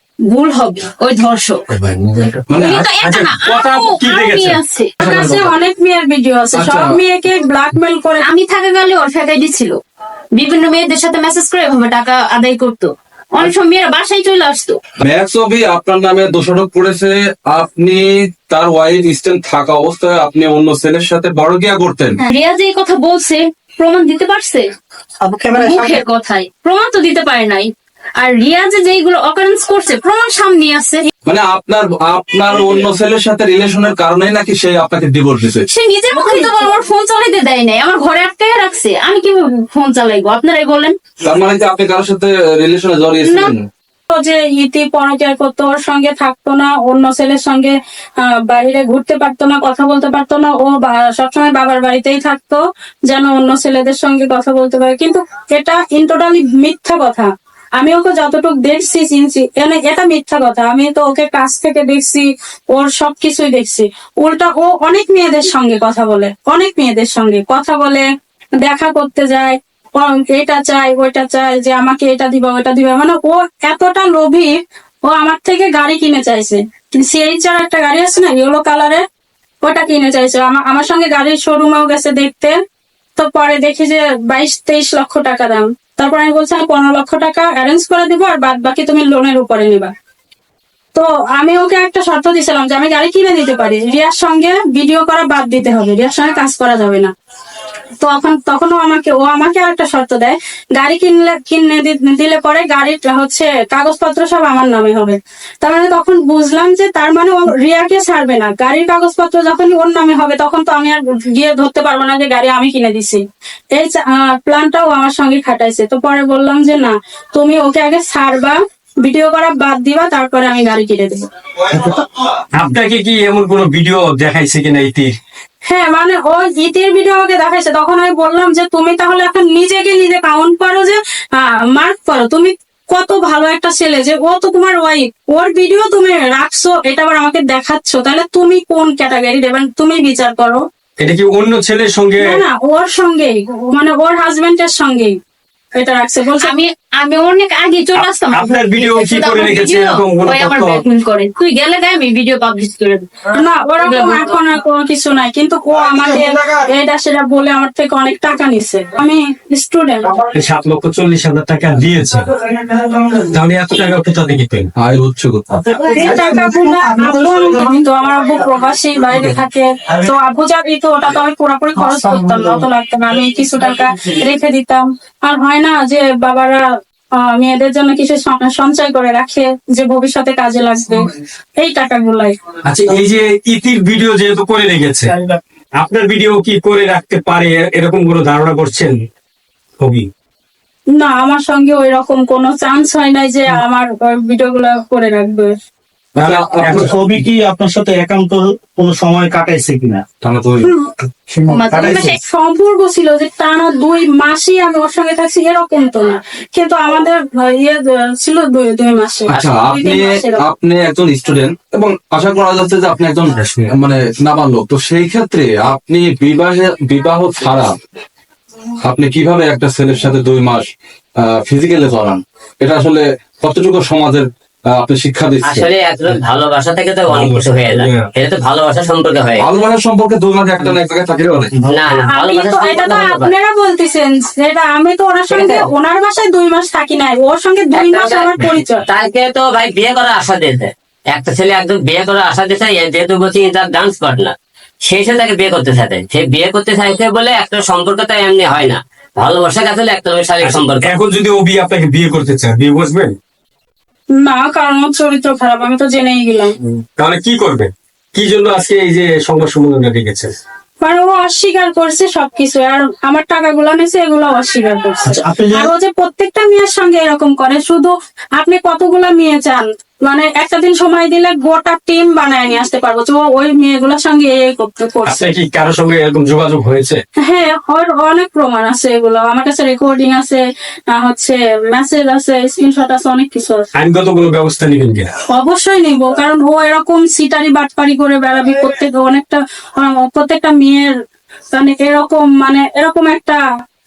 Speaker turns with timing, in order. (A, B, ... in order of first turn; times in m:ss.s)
0:00.3-0:01.6 A
0:02.5-0:02.9 B
0:02.5-0:04.6 C
0:02.6-0:04.9 A
0:05.0-0:05.5 B
0:05.0-0:08.2 D
0:06.5-0:07.0 B
0:08.2-0:09.8 A
0:10.4-0:14.8 A
0:15.0-0:22.1 B
0:22.2-0:24.6 A
0:25.2-0:26.0 E
0:25.5-0:31.0 A
0:31.2-0:35.6 B
0:35.7-0:41.0 A
0:36.1-0:36.8 D
0:41.2-0:43.6 B
0:43.2-0:43.5 A
0:44.1-1:08.0 D
1:08.6-1:14.5 D
1:15.1-1:19.0 D
1:19.6-1:22.6 D
1:23.2-1:29.9 D
1:30.9-1:37.1 D
1:38.0-1:53.2 D
1:53.7-2:02.0 D
2:02.6-2:05.2 C
2:05.7-2:20.6 D
2:21.0-2:22.4 C
2:22.2-2:25.1 D
2:25.8-2:26.5 D
2:26.4-2:34.4 A
2:27.9-2:30.8 C
2:33.3-2:40.1 D
2:40.3-2:42.4 C
2:43.2-2:44.7 C
2:44.8-2:45.6 B
2:45.8-2:47.4 E
2:45.8-2:56.6 D
2:52.0-2:52.4 E
2:57.2-3:01.0 D
3:01.6-3:02.4 D
3:02.7-3:05.1 C
3:05.8-3:08.9 C
3:09.8-3:10.1 C
3:10.9-3:15.5 D
3:16.2-3:16.9 C
3:16.2-3:16.8 B
3:16.7-3:20.0 E
3:20.2-3:20.7 B
3:21.3-3:22.1 E
3:21.5-3:22.2 A
3:21.9-3:30.4 D
3:29.3-3:37.7 B
3:33.4-3:33.7 C
3:38.8-3:40.7 B
3:41.2-3:45.7 B
3:45.4-3:49.4 F
3:47.1-3:48.0 C
3:49.4-3:51.5 B
3:51.6-3:53.3 F
3:52.1-3:58.8 D
3:55.3-3:55.7 F
3:57.7-4:04.3 F
4:04.8-4:10.9 F
4:10.4-4:13.2 C
4:14.2-4:16.5 D
4:17.0-4:20.3 C
4:20.8-4:35.3 D
4:25.0-4:25.7 E
4:35.0-4:37.0 C
4:37.2-4:43.6 D
4:43.7-4:45.1 C
4:45.3-4:50.9 D
4:51.5-4:53.4 D